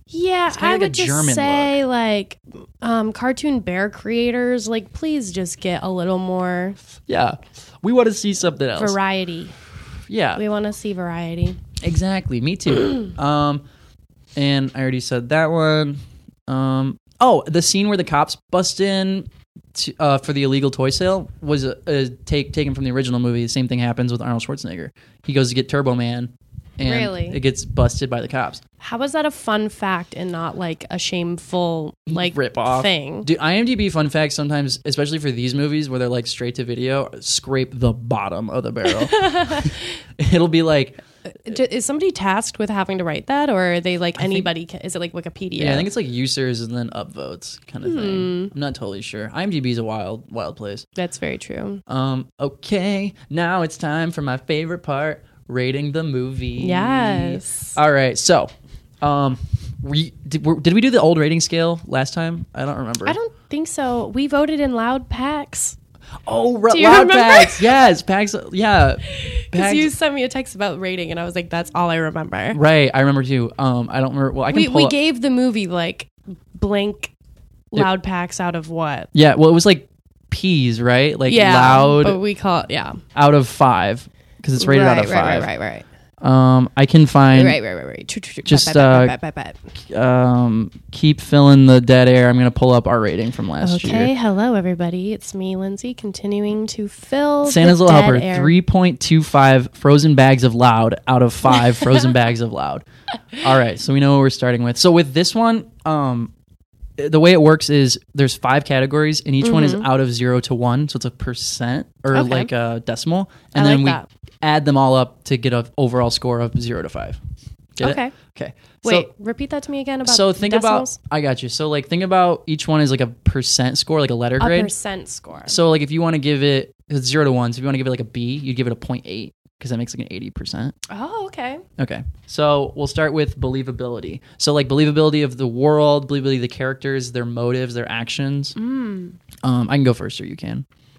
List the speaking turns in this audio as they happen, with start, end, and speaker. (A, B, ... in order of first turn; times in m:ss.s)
0:00.1-0:06.8 A
0:00.5-0:01.8 B
0:07.0-0:09.0 B
0:08.8-0:09.6 A
0:10.1-0:10.4 B
0:10.4-0:11.6 A
0:11.8-0:13.6 B
0:14.4-0:28.6 B
0:26.8-0:27.4 A
0:28.8-0:33.3 A
0:32.1-0:41.0 B
0:39.0-0:39.7 A
0:41.3-0:45.9 A
0:44.2-0:44.5 B
0:45.6-0:50.9 B
0:47.8-0:48.5 A
0:51.0-0:51.8 A
0:51.9-1:03.2 B
0:56.6-0:57.8 A
1:03.0-1:05.8 A
1:06.3-1:09.9 B
1:06.7-1:07.6 A
1:09.1-1:12.6 A
1:12.5-1:15.0 B
1:14.5-1:17.1 A
1:17.7-1:19.1 A
1:19.1-1:22.2 B
1:21.3-1:23.0 A
1:23.2-1:25.5 B
1:24.6-1:25.9 A
1:26.2-1:27.6 B
1:27.3-1:29.6 A
1:28.4-1:29.1 B
1:29.9-1:34.1 B
1:33.6-1:38.6 A
1:37.4-1:42.8 B
1:43.4-1:46.3 B
1:47.0-1:57.2 B
1:49.4-1:49.9 A
1:52.1-1:52.5 A
1:53.5-1:54.1 A
1:57.8-1:59.1 B
1:57.8-1:58.2 A
1:58.8-2:01.0 A
2:00.0-2:04.7 B
2:04.4-2:05.6 A
2:05.5-2:10.8 B
2:10.9-2:11.6 A
2:11.8-2:18.6 B
2:18.6-2:19.2 A
2:19.4-2:20.7 B